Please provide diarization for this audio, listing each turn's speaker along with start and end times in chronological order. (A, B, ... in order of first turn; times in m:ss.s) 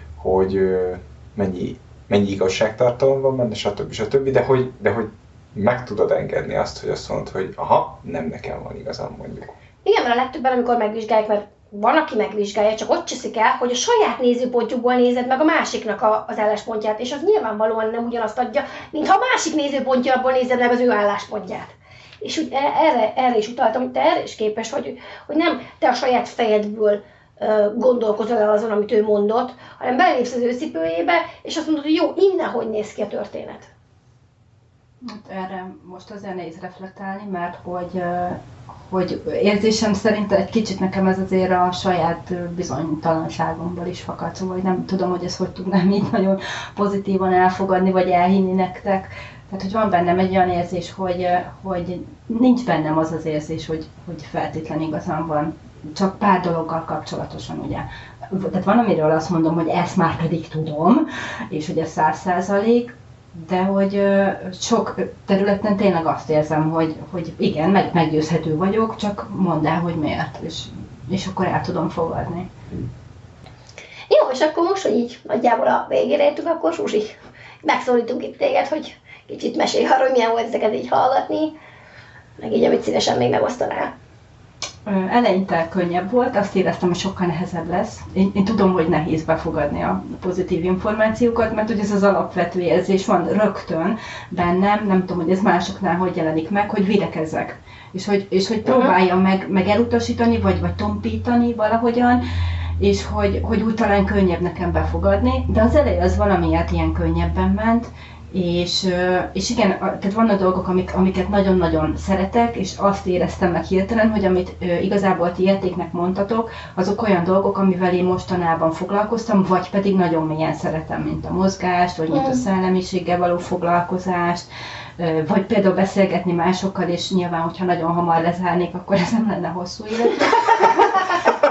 0:00.2-0:09.6 A
0:09.8-0:33.7 B
0:35.0-1:12.5 C
1:14.1-1:21.6 B
1:22.4-1:23.9 B
1:24.8-1:42.2 C
1:38.6-1:38.9 B
1:42.8-2:11.1 C
2:02.1-2:02.4 B